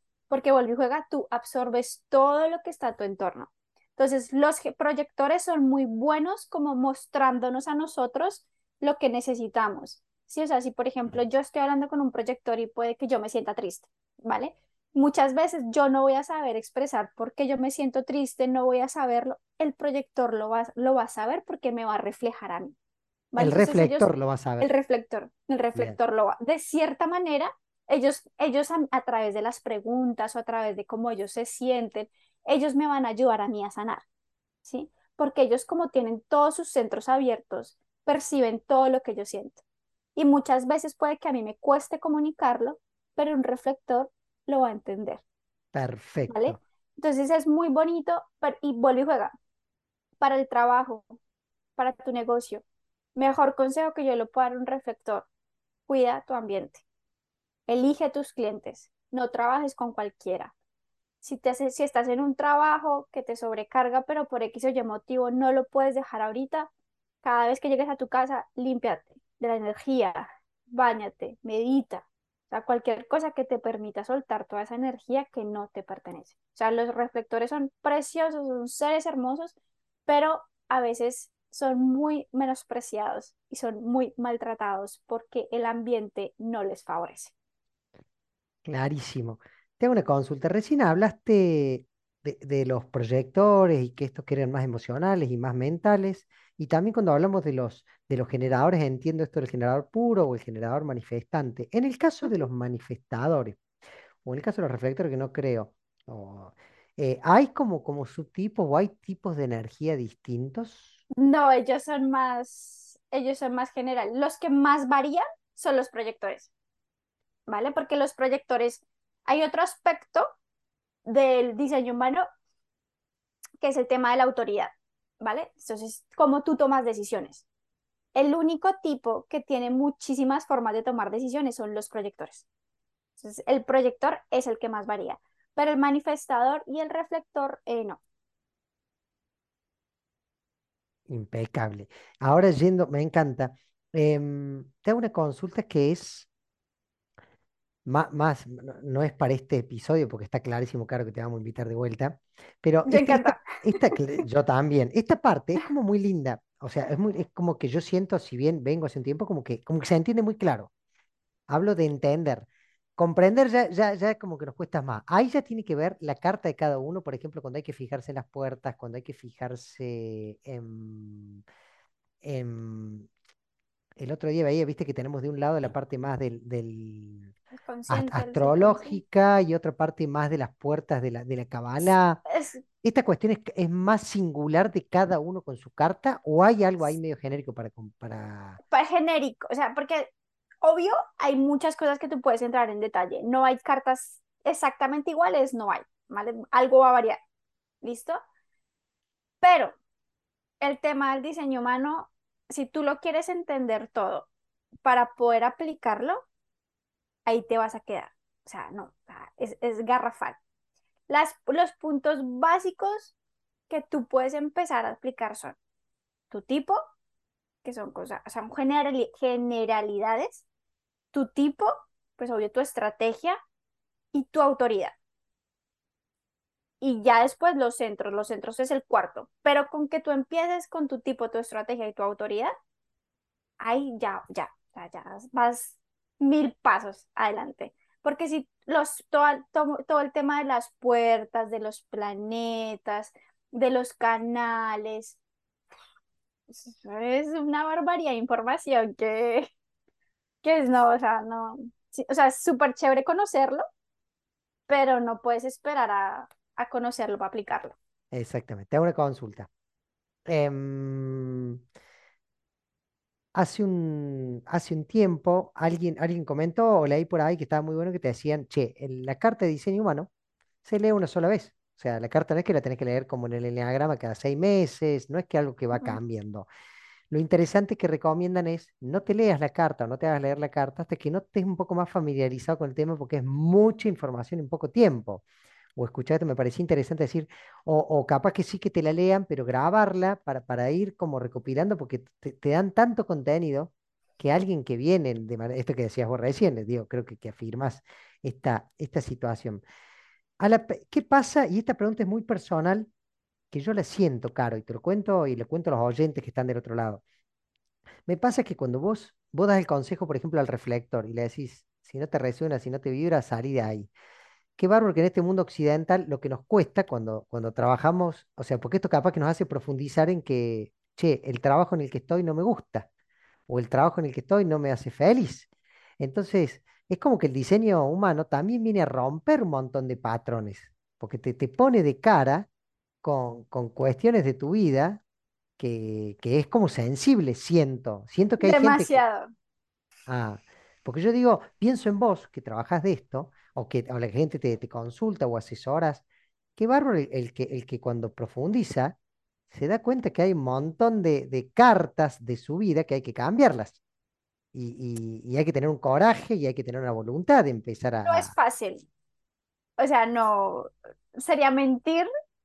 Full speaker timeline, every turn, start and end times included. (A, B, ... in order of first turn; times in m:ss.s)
0:00.3-0:22.7 A
0:23.3-0:34.0 A
0:23.4-0:24.7 B
0:34.6-0:39.6 A
0:40.2-0:45.2 A
0:45.7-0:46.6 B
0:46.3-0:49.3 A
0:50.2-0:51.1 A
0:51.8-0:52.6 A
0:53.2-0:55.3 A
0:55.9-0:56.8 A
0:57.7-1:00.5 A
1:01.2-1:06.7 A
1:07.2-1:19.5 A
1:20.0-1:27.3 A
1:28.6-1:43.6 B
1:44.2-1:51.0 B
1:51.2-1:56.5 A
1:57.5-2:00.3 A
2:01.0-2:02.2 A
2:03.6-2:07.4 A
2:08.1-2:12.4 A
2:13.2-2:18.0 A
2:21.1-2:26.3 B
2:27.8-2:40.7 B
2:32.8-2:34.0 A
2:41.5-2:51.4 B
2:52.2-2:53.1 B
2:54.0-2:57.3 B
2:57.5-2:59.0 A
2:57.9-3:02.2 B
3:02.3-3:02.6 A
3:02.8-3:08.6 B
3:08.7-3:10.1 A
3:10.6-3:17.2 A
3:17.8-3:18.2 A
3:19.4-3:19.8 A
3:20.6-3:24.3 A
3:24.8-3:26.2 A
3:27.2-3:30.4 A
3:31.1-3:33.1 A
3:33.7-3:35.6 A
3:36.3-3:36.8 A
3:37.6-3:40.4 A
3:41.1-3:43.4 A
3:44.1-3:45.0 A
3:46.8-3:52.5 A
3:53.6-4:05.2 A
4:06.5-4:09.5 A
4:10.4-4:13.6 A
4:14.7-4:17.8 A
4:18.1-4:19.5 B
4:20.3-4:21.6 B
4:23.3-4:30.1 B
4:30.6-4:36.5 B
4:37.1-4:59.6 B
5:00.4-5:02.9 B
5:03.5-5:07.0 B
5:08.0-5:13.9 B
5:14.6-5:22.9 B
5:23.5-5:25.5 B
5:26.0-5:32.5 B
5:33.0-5:35.0 B
5:35.6-5:39.0 B
5:38.4-5:39.3 A
5:40.1-5:46.0 B
5:46.6-5:49.0 B
5:49.5-5:53.8 B
5:54.5-5:58.3 B
5:58.0-5:58.8 A
5:59.8-6:02.1 A